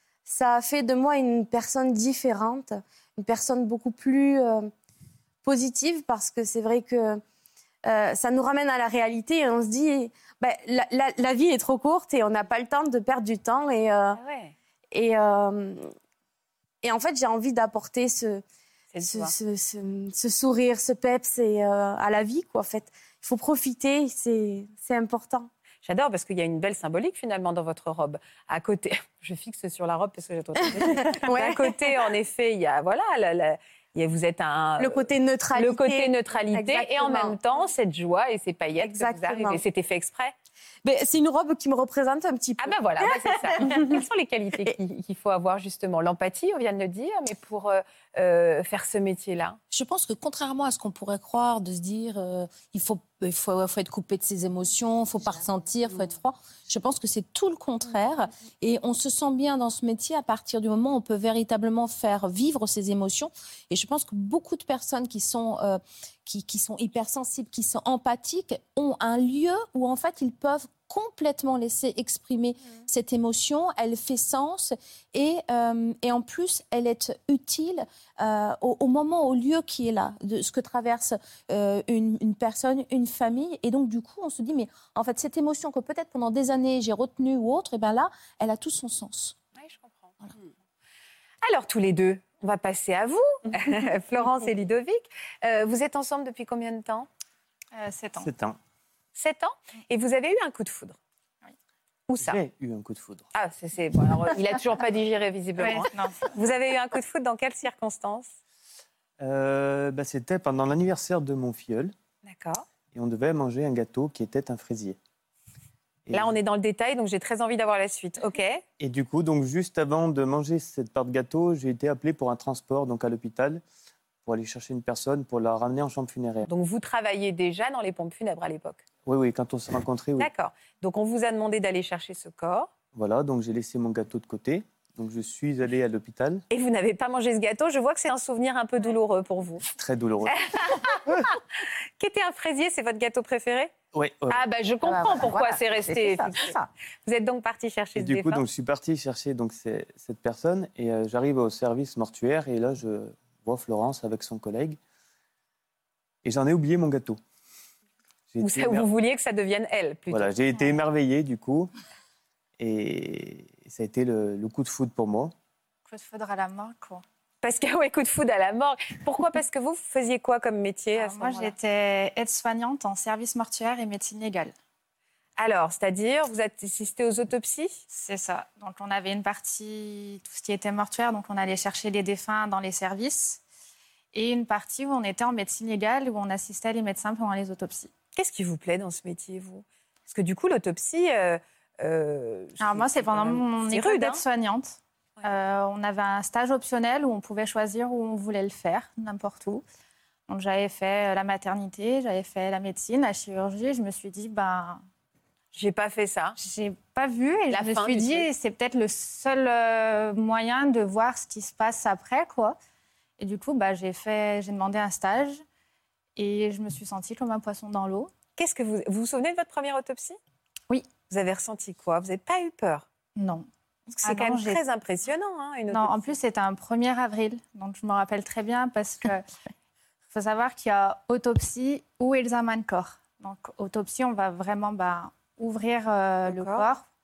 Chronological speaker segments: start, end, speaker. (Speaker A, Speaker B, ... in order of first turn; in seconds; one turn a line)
Speaker A: 0.3-4.7
Speaker A: 5.4-7.2
Speaker A: 7.8-14.2
Speaker B: 14.2-14.5
Speaker A: 14.9-15.9
Speaker A: 16.8-18.4
Speaker B: 18.9-19.3
Speaker A: 19.0-25.5
Speaker B: 25.9-40.4
Speaker A: 30.8-31.7
Speaker A: 34.8-37.4
Speaker A: 38.8-39.6
Speaker A: 40.8-44.0
Speaker B: 42.6-49.6
Speaker C: 49.7-89.4
Speaker B: 89.5-90.2
Speaker B: 91.4-97.1
Speaker D: 97.8-98.3
Speaker E: 98.2-98.6
Speaker B: 99.2-101.0
Speaker B: 102.1-102.4
Speaker E: 102.2-103.3
Speaker B: 103.3-108.3
Speaker D: 105.6-106.2
Speaker E: 109.2-111.9
Speaker B: 112.2-112.7
Speaker E: 112.9-115.0
Speaker E: 116.1-116.3
Speaker B: 116.1-118.6
Speaker E: 118.8-123.6
Speaker E: 124.2-126.5
Speaker B: 126.5-128.8
Speaker E: 129.1-130.3
Speaker B: 130.2-132.7
Speaker E: 132.9-136.4
Speaker B: 136.5-139.7
Speaker E: 139.7-140.5
Speaker B: 140.3-141.4
Speaker B: 142.0-143.7
Speaker E: 143.9-144.4
Speaker B: 144.3-148.4
Speaker A: 144.9-146.5
Speaker E: 148.0-154.8
Speaker E: 156.2-157.2
Speaker E: 158.3-158.9
Speaker B: 158.4-160.3
Speaker E: 160.1-161.7
Speaker E: 162.6-165.3
Speaker D: 165.9-167.0
Speaker B: 167.4-171.5
Speaker D: 170.9-174.5
Speaker B: 175.4-177.8
Speaker D: 177.9-183.4
Speaker D: 184.1-187.9
Speaker B: 188.2-194.2
Speaker D: 192.6-199.6
Speaker D: 200.3-204.8
Speaker B: 205.5-206.4
Speaker D: 206.4-212.6
Speaker B: 207.5-208.3
Speaker D: 213.2-215.4
Speaker D: 216.2-218.1
Speaker B: 218.4-220.2
Speaker B: 221.1-222.9
Speaker D: 223.2-223.5
Speaker B: 223.9-226.2
Speaker D: 224.0-224.6
Speaker D: 225.7-229.2
Speaker D: 230.1-236.9
Speaker B: 236.3-236.7